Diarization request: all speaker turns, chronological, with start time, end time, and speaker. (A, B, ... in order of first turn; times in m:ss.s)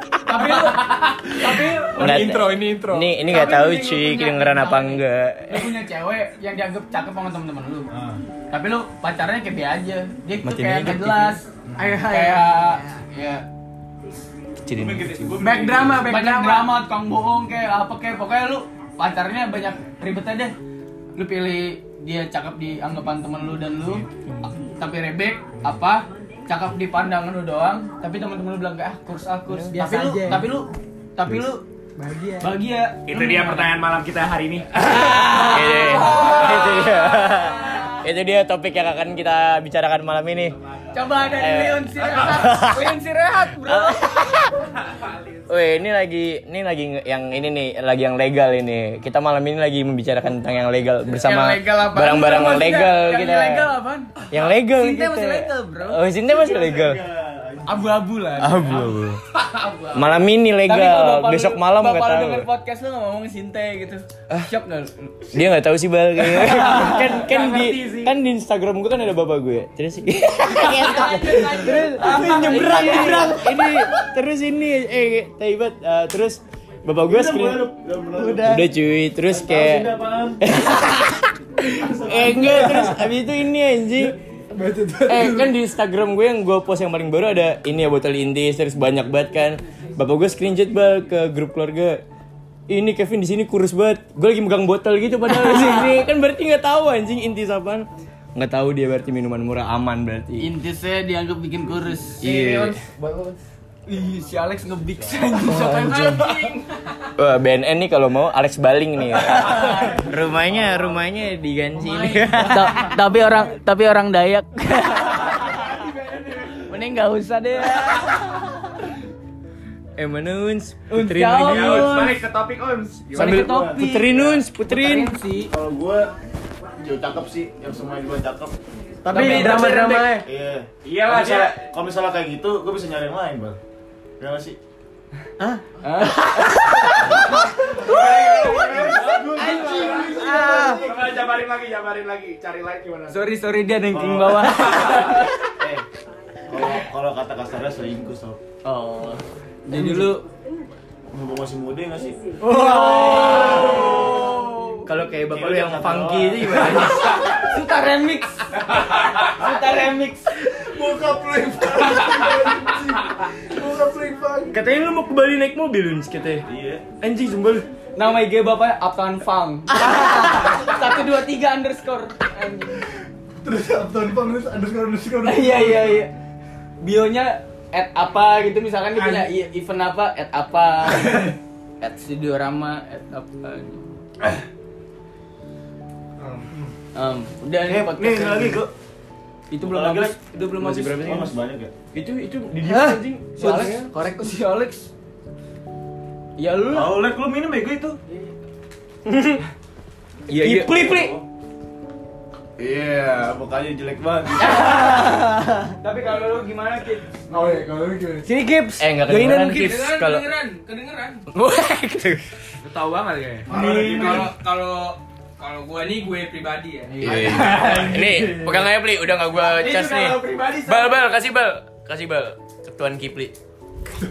0:00.3-0:02.2 A
0:01.3-0:03.1 B
0:02.0-0:05.7 C
0:03.2-0:07.9 A
0:07.9-0:08.2 D
0:08.5-0:13.5 A
0:10.4-0:11.4 C
0:11.7-0:12.0 D
0:11.9-0:12.4 E
0:12.2-0:12.5 F
0:14.7-0:15.4 C
0:14.7-0:16.1 D
0:15.4-0:20.6 A
0:15.8-0:16.7 E
0:16.2-0:16.6 F
0:21.2-0:31.6 A
0:29.5-0:30.6 E
0:32.0-0:32.6 E
0:32.4-0:33.7 A
0:33.0-0:34.8 G
0:34.8-0:40.6 C
0:35.1-0:37.7 A
0:40.9-0:44.2 A
0:41.2-0:43.0 C
0:43.6-0:44.5 C
0:45.5-0:53.7 C
0:51.1-0:56.0 A
0:54.3-0:57.0 C
0:56.2-0:58.1 D
0:57.7-0:59.0 A
0:58.4-0:59.2 C
0:59.6-0:59.9 G
0:59.9-1:02.5 C
1:00.6-1:05.4 A
1:05.3-1:17.7 C
1:06.4-1:07.0 A
1:06.6-1:08.2 G
1:10.6-1:13.4 A
1:11.5-1:13.1 E
1:17.0-1:18.7 D
1:18.2-1:18.6 E
1:18.4-1:24.2 C
1:19.2-1:20.7 D
1:21.8-1:22.8 D
1:22.6-1:23.0 B
1:24.5-1:25.6 B
1:25.1-1:32.0 C
1:32.7-1:40.5 C
1:40.4-1:42.2 A
1:42.2-1:42.8 C
1:42.5-1:43.0 G
1:43.9-1:46.3 A
1:45.5-1:46.3 C
1:47.2-1:53.0 C
1:52.4-1:58.4 A
2:00.0-2:02.1 C
2:00.9-2:02.2 A
2:01.4-2:03.5 G
2:03.1-2:05.5 A
2:03.2-2:05.2 C
2:03.2-2:04.4 D
2:05.5-2:06.1 D
2:06.7-2:08.6 D
2:09.0-2:10.3 E
2:09.1-2:10.1 G
2:09.2-2:09.6 A
2:09.2-2:10.0 F
2:09.2-2:13.6 D
2:10.8-2:11.7 G
2:14.2-2:14.6 D
2:15.8-2:16.9 A
2:17.0-2:23.3 G
2:18.7-2:20.9 B
2:19.5-2:20.8 A
2:20.2-2:20.8 E
2:23.1-2:25.2 A
2:23.9-2:25.8 D
2:26.5-2:28.4 D
2:28.6-2:30.3 A
2:31.1-2:32.3 D
2:32.4-2:34.8 A
2:33.0-2:34.4 D
2:33.4-2:33.6 G
2:34.9-2:37.2 C
2:35.2-2:36.8 D
2:37.1-2:40.4 A
2:40.6-2:44.6 B
2:44.5-2:46.4 C
2:46.5-2:46.8 D
2:47.0-2:47.7 C
2:48.0-2:52.8 A
2:53.4-2:56.1 B
2:55.2-2:56.1 A
2:56.8-3:03.8 A
2:58.9-2:59.3 B
3:06.2-3:06.7 B
3:07.0-3:08.6 A
3:07.6-3:08.7 D
3:09.5-3:10.8 A
3:09.6-3:11.7 D
3:09.9-3:11.3 C
3:11.9-3:13.3 C
3:12.8-3:13.8 E
3:13.4-3:14.9 A
3:13.4-3:13.9 B
3:16.4-3:17.0 A
3:16.7-3:18.0 D
3:19.1-3:19.4 C
3:20.3-3:21.1 C
3:20.4-3:21.2 D
3:22.6-3:25.1 D
3:24.4-3:25.2 A
3:24.9-3:25.7 E
3:25.8-3:27.6 A
3:27.3-3:28.3 B
3:28.2-3:29.2 E
3:28.8-3:30.2 C
3:29.4-3:31.3 F
3:31.3-3:32.2 C
3:32.6-3:33.5 G
3:33.5-3:34.3 D
3:33.5-3:37.6 F
3:37.0-3:43.3 C
3:37.1-3:37.8 G
3:37.2-3:38.7 B
3:39.4-3:41.0 A